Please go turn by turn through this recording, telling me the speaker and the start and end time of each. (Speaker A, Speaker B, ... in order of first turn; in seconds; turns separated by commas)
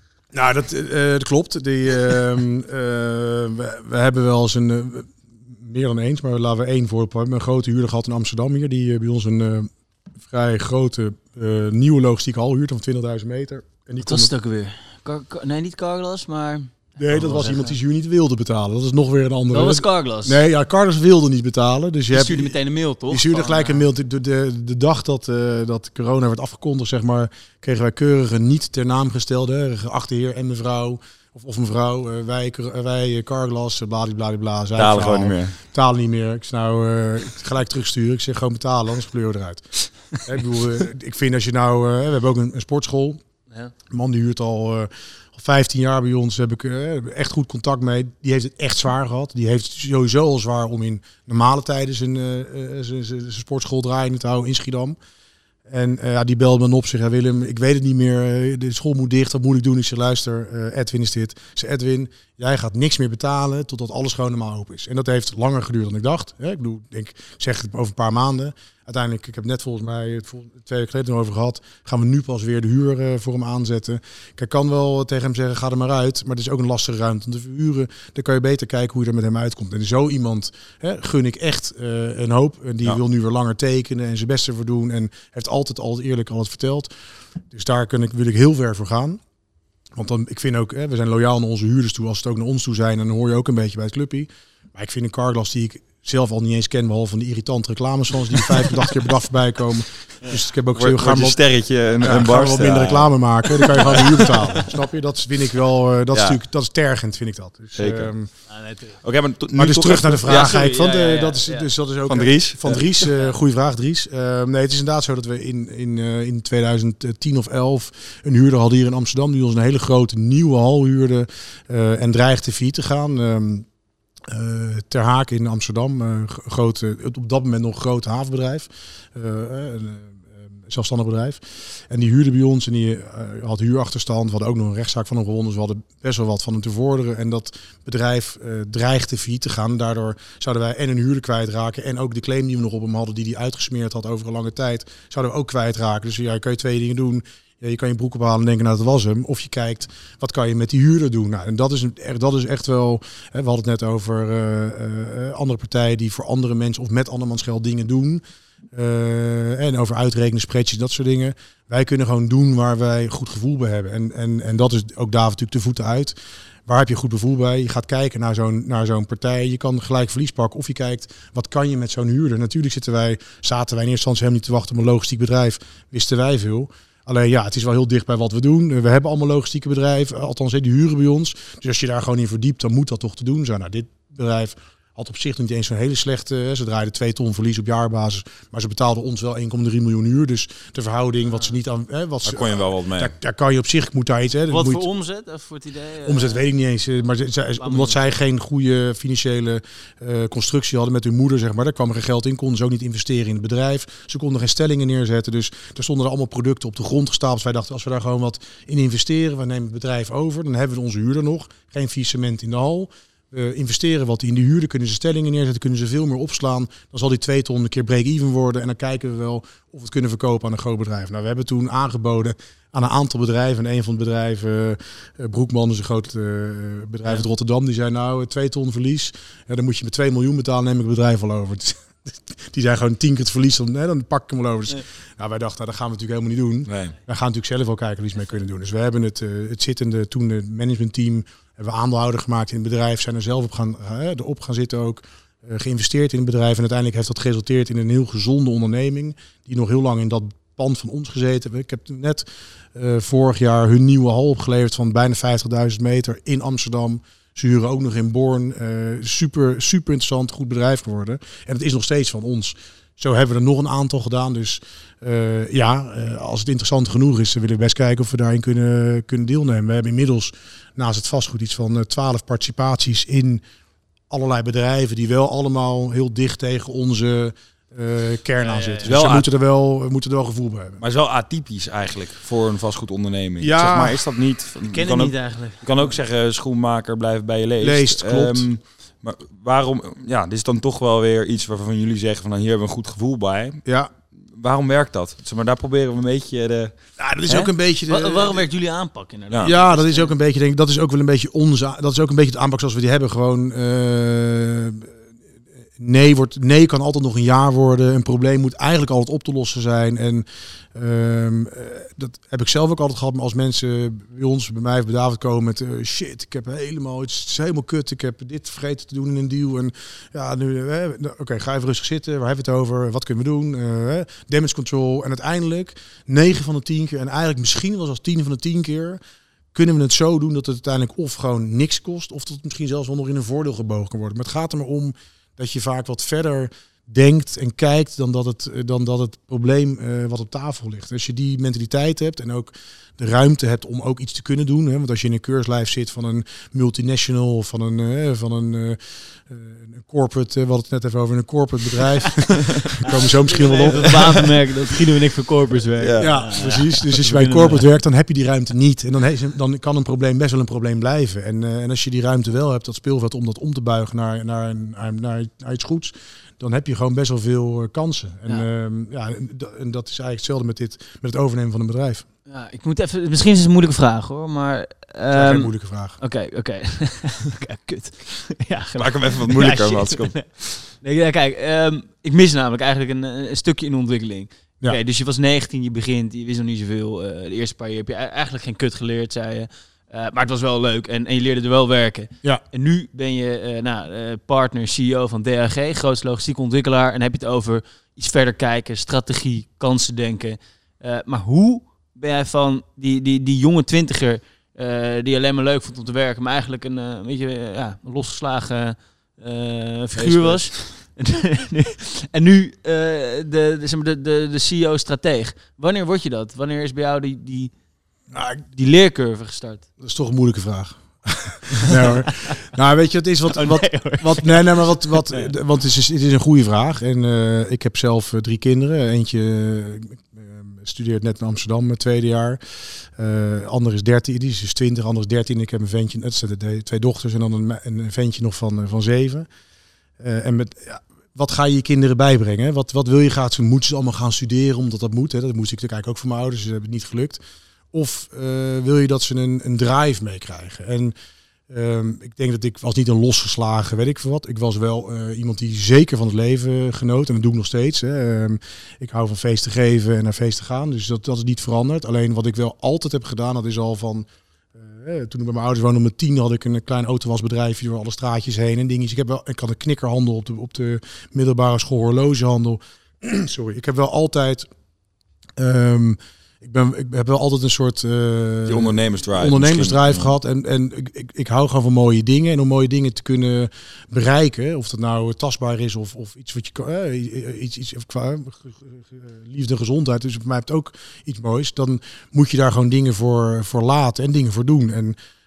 Speaker A: 0.3-9.7, Speaker A: 10.3-14.3, Speaker B: 14.0-17.8, Speaker A: 17.0-22.6, Speaker B: 19.5-20.4, Speaker B: 22.1-23.8, Speaker A: 23.1-43.2, Speaker C: 34.8-35.6, Speaker A: 43.9-55.0, Speaker A: 55.7-86.9, Speaker A: 87.5-89.2, Speaker A: 90.0-101.4, Speaker C: 100.8-104.6, Speaker A: 102.0-108.3, Speaker C: 106.1-106.4, Speaker C: 107.8-108.1, Speaker B: 108.5-109.0, Speaker C: 109.0-110.6, Speaker A: 109.5-123.7, Speaker B: 110.3-111.7, Speaker C: 112.1-112.9, Speaker A: 124.3-166.2, Speaker A: 166.7-194.8, Speaker C: 192.2-193.2, Speaker B: 194.5-196.5, Speaker A: 196.0-273.4, Speaker B: 197.6-198.0, Speaker C: 236.7-236.9, Speaker A: 274.1-280.8, Speaker B: 278.4-278.9, Speaker C: 278.8-279.3, Speaker C: 280.8-293.6, Speaker A: 283.4-284.1, Speaker B: 284.7-285.9, Speaker A: 287.6-288.5, Speaker A: 293.6-293.9, Speaker C: 294.4-296.7, Speaker A: 297.0-298.4, Speaker B: 297.3-300.1, Speaker A: 299.4-304.9, Speaker A: 305.8-329.0, Speaker A: 329.5-354.3, Speaker B: 352.8-357.6, Speaker C: 355.8-356.1, Speaker A: 356.0-372.1, Speaker B: 372.3-417.5, Speaker A: 375.1-376.0, Speaker C: 378.8-380.7, Speaker C: 410.0-410.6, Speaker B: 418.2-419.7, Speaker A: 419.8-439.3, Speaker B: 423.3-425.3, Speaker A: 440.0-447.2, Speaker A: 447.7-450.9, Speaker A: 451.5-474.5, Speaker A: 475.4-495.0, Speaker C: 478.5-480.1